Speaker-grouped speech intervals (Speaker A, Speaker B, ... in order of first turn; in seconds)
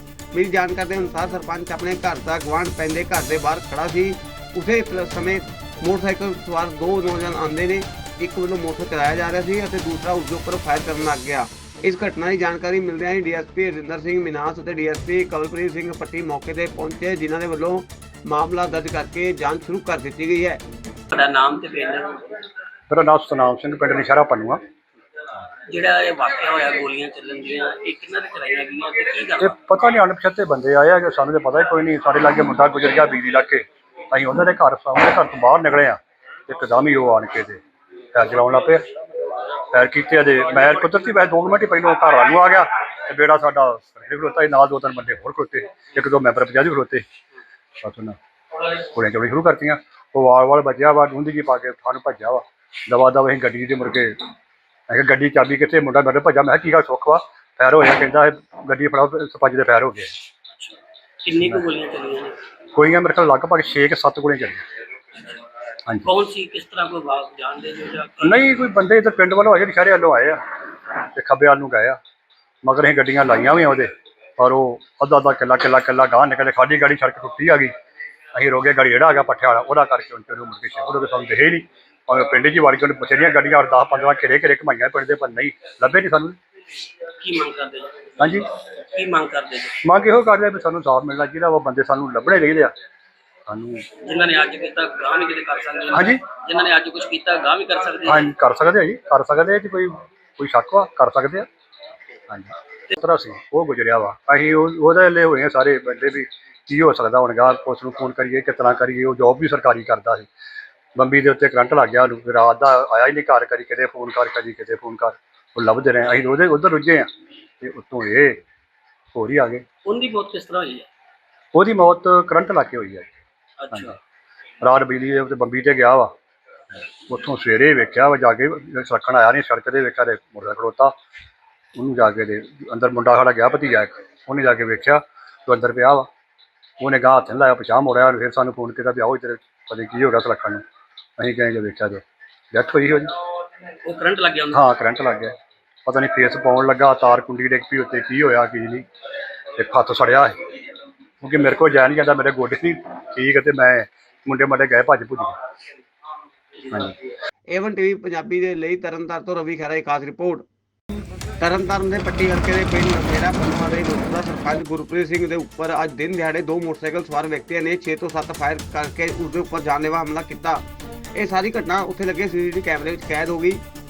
Speaker A: 0.3-20.6, 157.5-160.4, 161.4-170.6, 171.1-173.6
Speaker B: 21.1-22.3, 25.7-29.5, 60.5-62.4, 66.0-68.5, 87.2-89.8, 94.0-98.3, 119.8-120.9, 123.6-123.9, 143.8-144.7
Speaker C: 22.9-24.6, 29.4-37.6, 38.1-38.8, 39.7-47.0, 47.8-48.1, 48.7-54.2, 54.9-60.2, 62.7-64.6, 68.2-70.4, 71.0-72.0, 72.6-77.7, 78.3-86.4, 88.2-88.5, 89.8-92.7, 93.5-93.9, 95.9-96.2, 98.0-101.5, 102.3-110.3, 110.9-117.1, 117.6-118.4, 119.1-119.6, 121.5-123.1, 124.6-126.1, 127.1-130.9, 131.8-136.1, 136.8-140.6, 141.2-143.2, 144.5-145.3, 145.8-148.8, 149.6-150.4, 151.2-155.3, 156.7-156.9